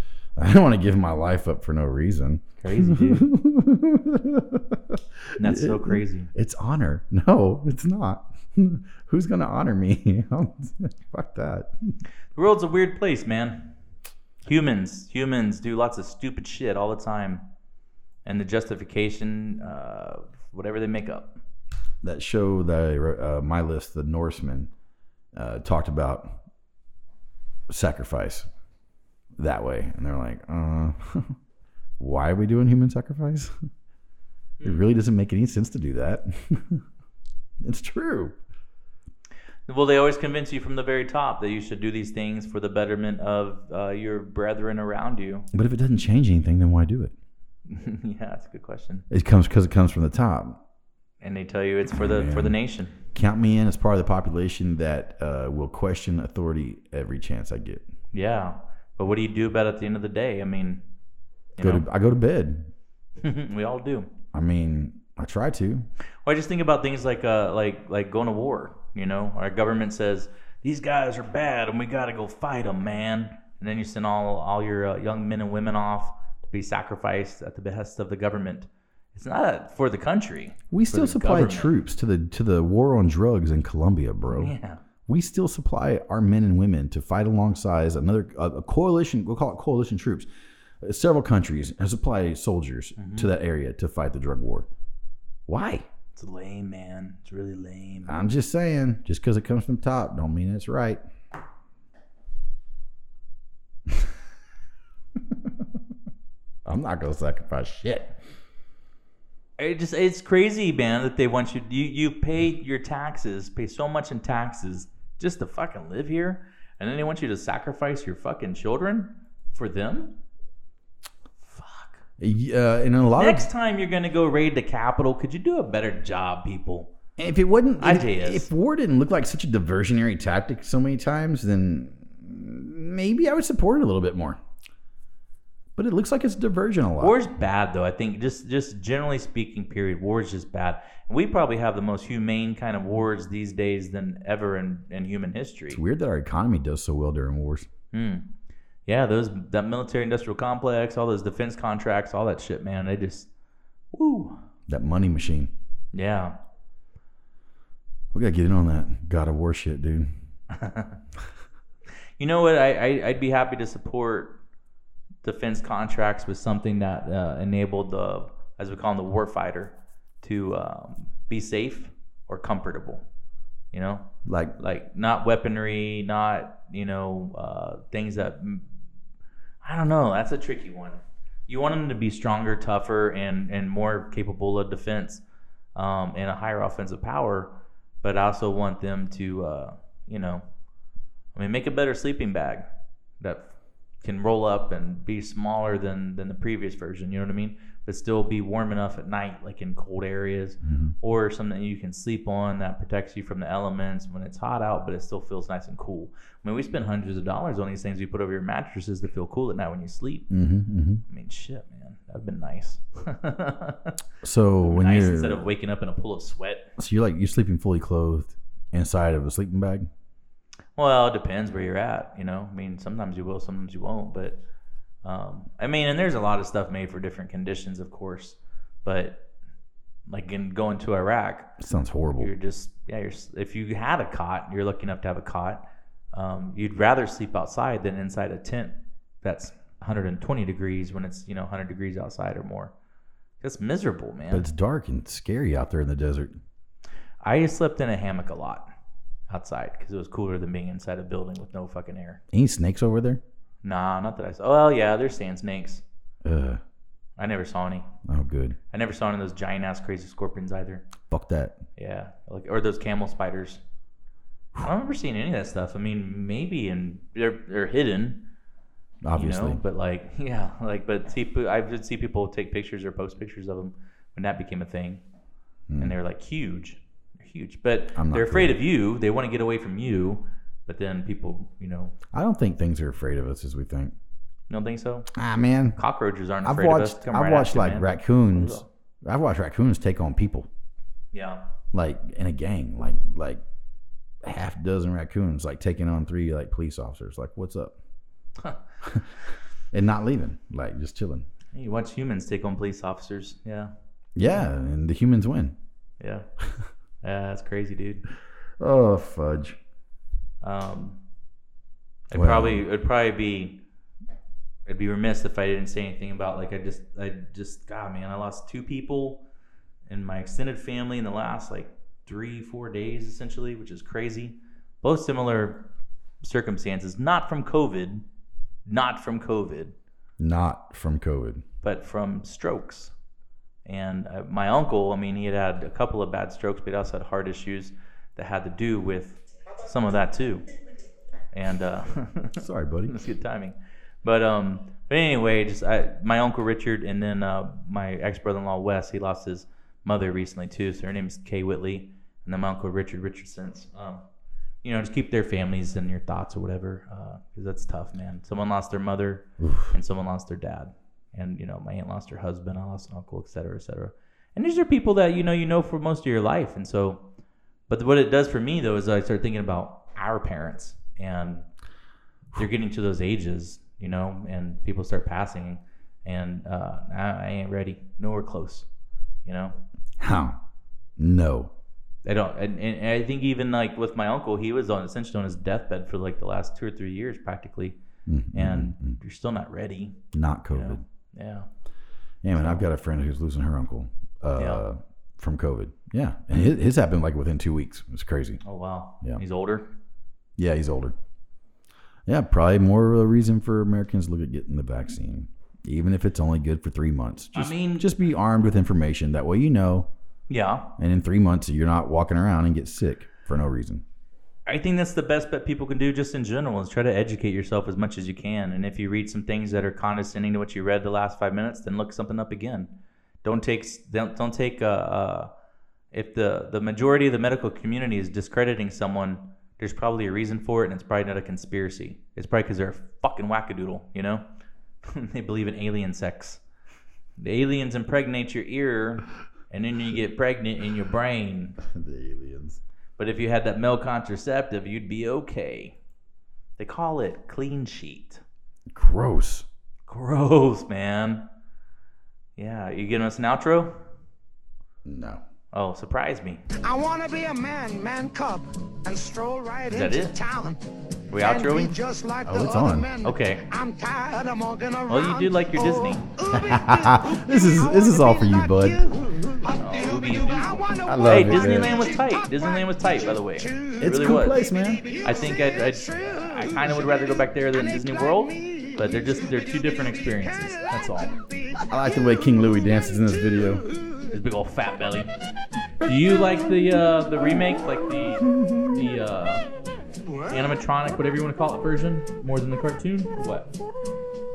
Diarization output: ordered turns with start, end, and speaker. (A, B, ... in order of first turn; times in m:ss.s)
0:00.4-0:11.9 A
0:02.6-0:03.3 B
0:05.4-0:06.3 B
0:12.3-0:13.7 B
0:14.4-0:17.4 B
0:18.2-0:21.4 B
0:22.0-0:24.7 A
0:25.3-0:26.4 A
0:27.7-0:28.5 A
0:29.4-0:31.4 A
0:32.0-0:33.5 A
0:34.6-0:36.8 A
0:37.6-0:38.4 A
0:39.7-0:45.5 B
0:45.5-0:47.1 A
0:47.7-0:49.0 B
0:49.1-0:50.6 A
0:51.2-0:53.0 B
0:51.9-0:52.6 A
0:53.1-0:57.8 A
0:58.1-1:00.8 B
1:01.6-1:01.8 B
1:01.6-1:02.7 A
1:03.2-1:04.1 B
1:04.3-1:05.9 A
1:06.2-1:21.7 B
1:20.7-1:24.5 A
1:24.3-1:24.8 B
1:25.1-1:30.3 A
1:30.8-1:34.7 A
1:33.0-1:33.3 B
1:35.5-1:35.8 A
1:36.1-1:38.3 B
1:38.0-1:41.0 A
1:46.6-1:48.2 A
1:49.6-2:00.2 B
2:01.4-2:02.0 B
2:02.2-2:03.5 A
2:03.2-2:06.9 B
2:07.2-2:14.4 A
2:07.8-2:08.5 B
2:15.8-2:17.2 A
2:17.0-2:25.8 B
2:25.7-2:27.7 A
2:27.9-2:28.3 B
2:28.8-2:33.3 B
2:33.9-2:34.4 B
2:34.7-2:35.5 A
2:35.9-2:36.4 B
2:38.1-2:40.1 A
2:40.5-2:41.0 B
2:42.2-2:44.4 B
2:45.2-2:53.0 B
2:53.7-2:58.6 B
2:54.2-2:54.6 A
2:59.6-3:05.2 B
3:05.7-3:10.4 B
3:11.3-3:30.3 B
3:20.6-3:20.9 A
3:30.3-3:31.0 A
3:31.1-3:34.0 B
3:34.2-3:35.4 A
3:34.6-3:36.7 B
3:36.8-3:39.9 A
3:40.8-3:44.4 B
3:45.0-3:49.3 B
3:50.1-3:51.6 B
3:51.6-3:52.3 A
3:52.2-4:02.7 B
4:03.4-4:04.5 B
4:04.3-4:06.4 A
4:07.2-4:08.7 B
4:09.3-4:12.2 B
4:12.3-4:13.2 A
4:13.6-4:15.8 B
4:16.2-4:16.6 A
4:17.2-4:17.9 B
4:18.0-4:18.6 A
4:18.7-4:20.9 B
4:21.1-4:21.6 A
4:21.8-4:23.6 B
4:24.6-4:28.3 B
4:29.0-4:29.6 A
4:29.1-4:35.0 B
4:35.7-4:36.0 A
4:35.8-4:41.9 B
4:38.0-4:38.6 A
4:42.1-4:43.9 A
4:44.5-4:45.1 B
4:45.1-4:45.8 A
4:45.8-4:48.7 B
4:46.4-4:50.5 A
4:51.1-4:51.5 B
4:51.7-4:53.4 A
4:54.2-4:57.8 A
4:59.7-5:01.2 A
5:01.5-5:03.7 B
5:04.2-5:05.6 A
5:06.0-5:06.3 B
5:07.0-5:08.0 B
5:08.6-5:09.6 A
5:10.4-5:11.0 B
5:12.1-5:13.6 B
5:12.1-5:12.6 A
5:14.6-5:19.2 B
5:19.9-5:25.7 B
5:26.2-5:28.0 B
5:28.7-5:29.7 B
5:30.2-5:31.4 A
5:31.6-5:32.9 B
5:33.6-5:40.5 B
5:41.3-5:54.0 B
5:42.4-5:43.0 A
5:54.6-6:07.0 B
5:59.4-5:59.7 A
6:07.7-6:11.4 B
6:12.3-6:18.7 B
6:19.2-6:19.6 B
6:20.0-6:20.4 A
6:21.0-6:21.5 A
6:22.0-6:27.8 B
6:28.0-6:29.0 A
6:28.3-6:30.0 B
6:30.1-6:30.8 A
6:30.5-6:31.5 B
6:32.2-6:38.4 A
6:32.3-6:32.6 B
6:34.4-6:34.6 B
6:38.4-6:39.7 B
6:40.4-6:40.9 A
6:42.0-6:49.9 A
6:47.3-6:47.9 B
6:50.3-6:50.7 B
6:50.8-6:53.8 A
6:54.4-7:02.7 B
7:03.2-7:05.3 B
7:05.9-7:14.2 B
7:14.8-7:16.4 B
7:17.2-7:21.6 B
7:21.6-7:22.6 A
7:23.0-7:25.8 B
7:26.6-7:28.2 B
7:28.7-7:29.4 A
7:29.9-7:31.3 B
7:32.4-7:33.8 B
7:34.8-7:35.2 A
7:35.5-7:36.4 B
7:36.6-7:40.6 C
7:39.7-7:40.2 B
7:41.1-7:41.7 B
7:41.2-8:02.0 C
7:42.2-7:42.9 A
7:43.0-7:43.4 B
7:44.9-7:46.0 B
7:46.3-7:48.8 A
7:49.4-7:54.4 B
7:50.8-7:51.8 A
7:53.8-7:54.9 A
7:55.0-8:01.2 B
8:01.7-8:03.6 A
8:03.6-8:04.0 C
8:04.1-8:05.1 B
8:05.8-8:09.4 B
8:10.3-8:13.5 B